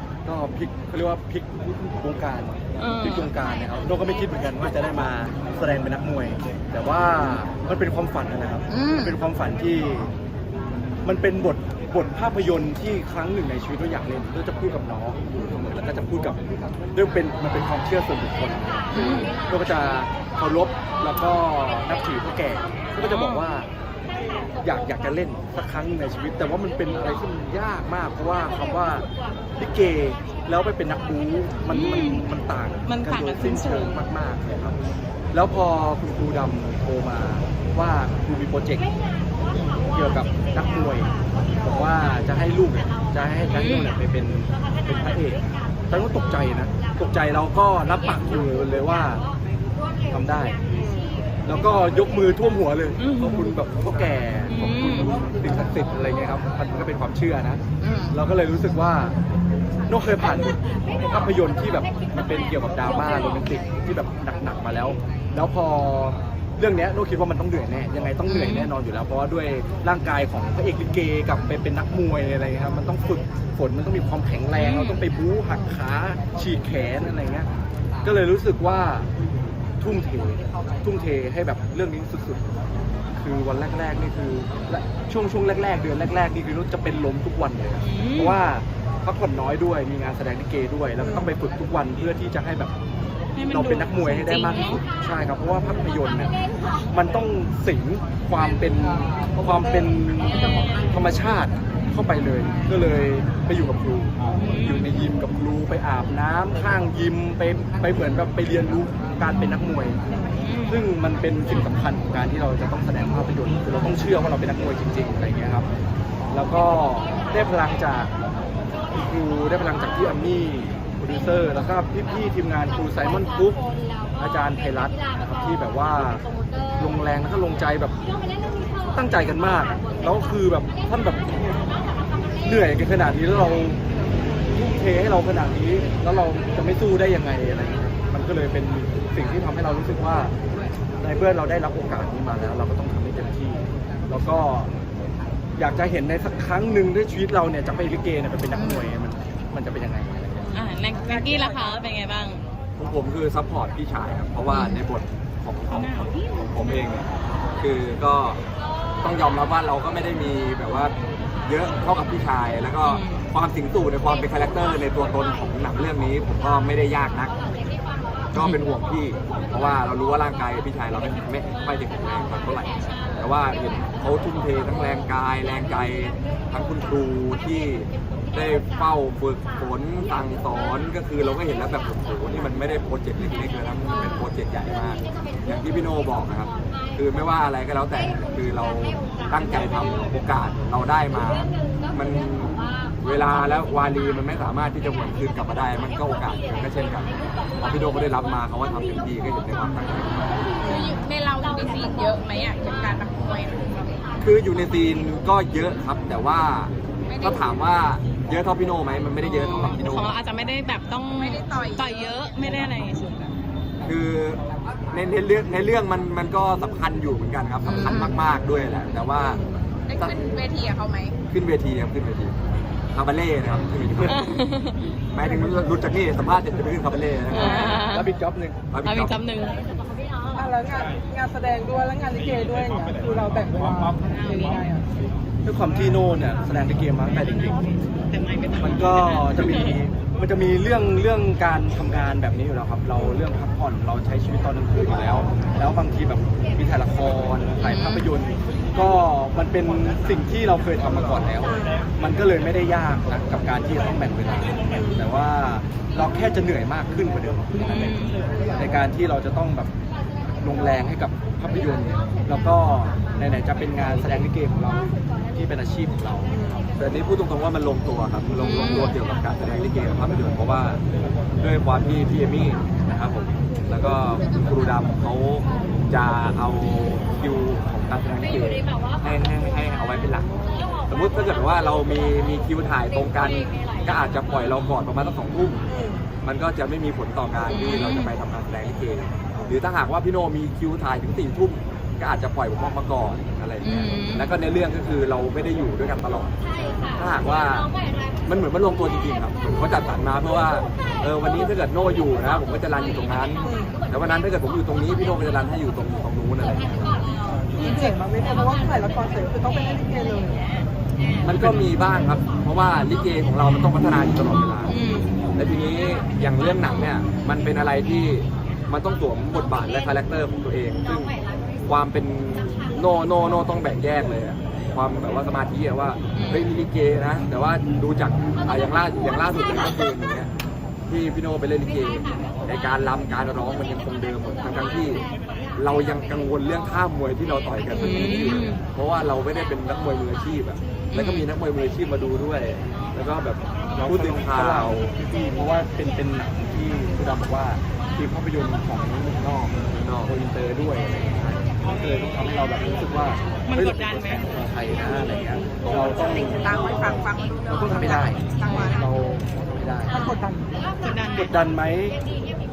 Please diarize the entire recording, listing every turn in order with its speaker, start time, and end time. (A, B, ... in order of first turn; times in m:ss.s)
0:00.2-0:10.1 A
0:02.8-0:03.3 B
0:08.7-0:09.2 B
0:11.0-0:16.4 A
0:16.9-0:23.7 A
0:18.9-0:19.3 B
0:23.0-0:23.5 B
0:24.6-0:34.8 A
0:31.7-0:32.3 B
0:32.8-0:34.0 B
0:35.3-0:38.9 A
0:39.9-0:41.1 A
0:41.6-0:49.2 A
0:43.5-0:44.0 B
0:50.1-0:50.6 A
0:50.7-0:51.1 C
0:51.4-0:59.2 A
0:53.0-0:53.6 B
0:54.5-0:55.2 B
0:57.8-0:58.2 B
0:59.9-1:17.5 A
1:08.2-1:08.7 B
1:14.5-1:15.0 B
1:18.0-1:19.1 A
1:19.8-1:22.5 A
1:23.2-1:32.7 A
1:27.8-1:28.4 B
1:31.0-1:31.3 B
1:33.4-1:34.8 B
1:33.5-1:36.3 A
1:36.9-1:50.0 A
1:44.3-1:45.0 B
1:50.4-1:50.9 B
1:50.7-1:55.6 A
1:56.3-1:58.1 A
1:58.9-2:03.6 A
2:04.2-2:06.2 A
2:06.8-2:08.0 A
2:08.9-2:11.4 A
2:12.4-2:13.8 A
2:14.5-2:20.3 A
2:21.0-2:24.7 A
2:25.6-2:30.6 A
2:28.5-2:28.9 B
2:30.5-2:32.4 B
2:31.1-2:31.6 C
2:32.8-2:37.1 D
2:34.5-2:34.8 B
2:35.7-2:36.8 B
2:37.6-2:38.4 D
2:39.0-2:40.9 D
2:41.4-2:47.3 D
2:42.8-2:43.2 B
2:48.3-3:20.4 D
2:48.3-2:48.6 B
3:20.6-3:21.0 C
3:20.6-3:24.0 E
3:24.2-3:30.1 D
3:27.0-3:27.7 E
3:29.2-3:33.2 B
3:31.1-3:32.1 E
3:33.8-3:39.4 D
3:37.6-3:38.2 B
3:39.1-3:39.7 C
3:39.9-3:41.2 E
3:41.3-3:42.3 D
3:42.9-3:44.4 D
3:44.0-3:44.8 B
3:45.1-3:47.7 D
3:45.2-3:45.7 C
3:47.3-3:48.1 B
3:47.3-3:48.6 A
3:47.4-3:47.6 C
3:48.7-3:49.1 D
3:48.8-3:49.6 B
3:50.3-3:54.8 C
3:54.0-3:54.6 B
3:55.4-3:57.6 A
3:58.1-3:59.7 B
3:58.6-4:19.7 A
4:07.6-4:08.1 B
4:14.7-4:15.0 C
4:17.5-4:18.2 B
4:18.3-4:18.6 C
4:20.4-4:26.4 A
4:26.3-4:26.6 C
4:26.8-4:30.8 D
4:28.3-4:29.0 B
4:31.4-4:40.3 D
4:40.9-4:45.6 D
4:45.7-4:46.0 C
4:46.2-4:56.3 D
4:47.5-4:48.1 B
4:53.6-4:54.3 B
4:57.0-4:57.7 D
4:58.2-5:07.0 D
5:03.4-5:03.8 C
5:07.5-5:10.4 C
5:11.2-5:14.7 D
5:14.7-5:15.1 B
5:15.4-5:21.1 D
5:21.6-5:30.3 D
5:26.1-5:26.4 B
5:30.9-5:35.0 D
5:35.6-5:44.9 D
5:37.7-5:38.6 B
5:40.9-5:41.3 B
5:43.7-6:00.0 A
5:49.6-5:50.1 D
5:53.5-5:54.4 B
5:55.7-5:58.9 E
5:59.9-6:00.7 C
6:00.8-6:01.3 B
6:01.1-6:02.0 A